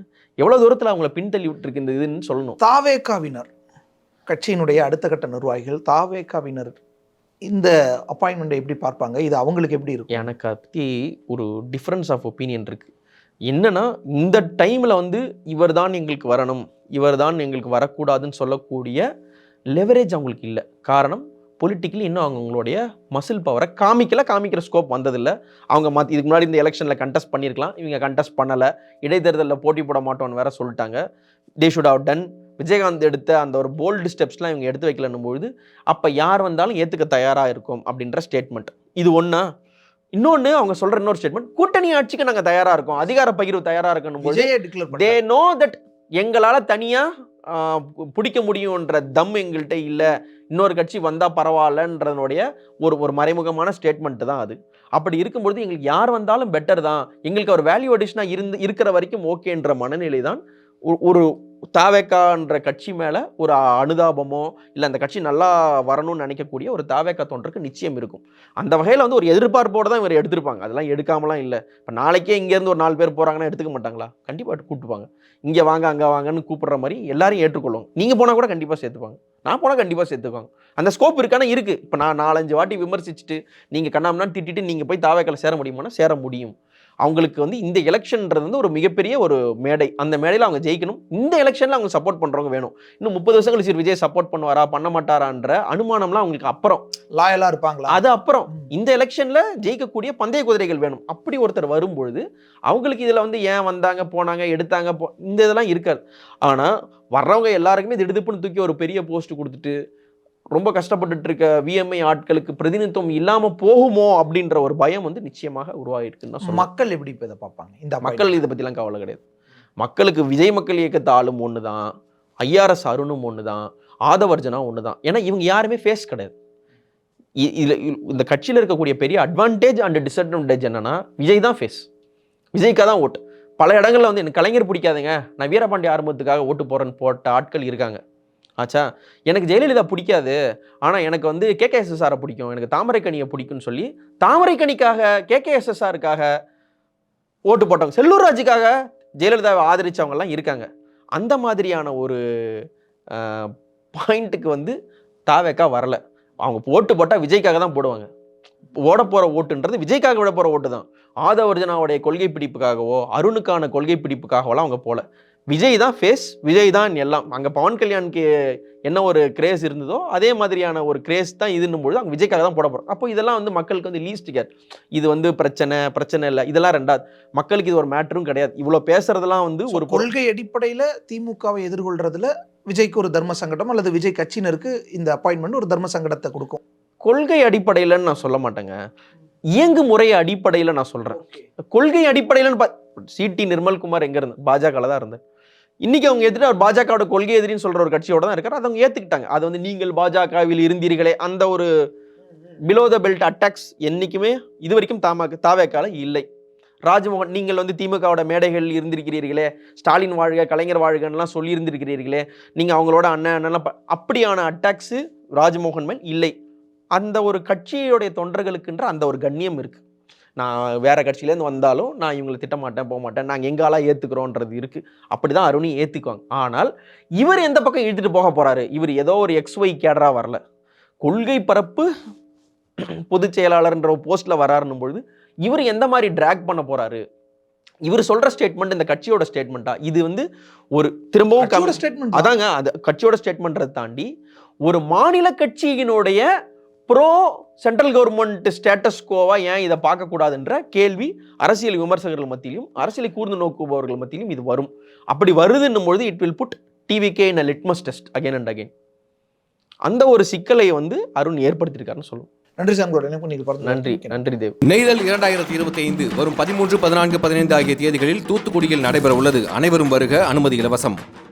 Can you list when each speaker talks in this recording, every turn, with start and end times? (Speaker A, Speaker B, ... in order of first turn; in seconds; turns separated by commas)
Speaker A: 0.4-2.6, Speaker B: 2.6-3.5, Speaker B: 4.3-6.8, Speaker B: 7.5-10.2, Speaker A: 10.1-12.9, Speaker A: 13.5-19.0, Speaker A: 19.7-31.0, Speaker A: 31.6-39.5, Speaker A: 40.1-96.8, Speaker B: 44.2-45.2, Speaker B: 97.1-98.0, Speaker A: 97.9-109.7, Speaker A: 110.5-116.7, Speaker B: 116.4-118.3, Speaker A: 118.0-119.2, Speaker A: 119.8-121.9, Speaker A: 122.4-126.3, Speaker A: 127.4-131.8, Speaker A: 132.6-138.0, Speaker A: 138.6-146.3, Speaker A: 147.5-152.6, Speaker A: 153.1-158.1, Speaker A: 158.8-168.3, Speaker A: 168.8-180.1, Speaker B: 179.7-186.6, Speaker A: 187.0-188.8, Speaker A: 189.5-195.2, Speaker A: 195.8-201.7, Speaker A: 202.6-206.2, Speaker A: 206.8-216.3, Speaker A: 216.9-219.8, Speaker A: 220.4-230.4, Speaker A: 231.0-231.9, Speaker A: 232.8-237.0, Speaker A: 237.8-244.1, Speaker B: 241.4-242.3, Speaker A: 244.6-246.2, Speaker A: 246.9-258.7, Speaker A: 259.9-262.3, Speaker B: 262.6-264.2, Speaker A: 263.6-264.5, Speaker C: 264.6-271.0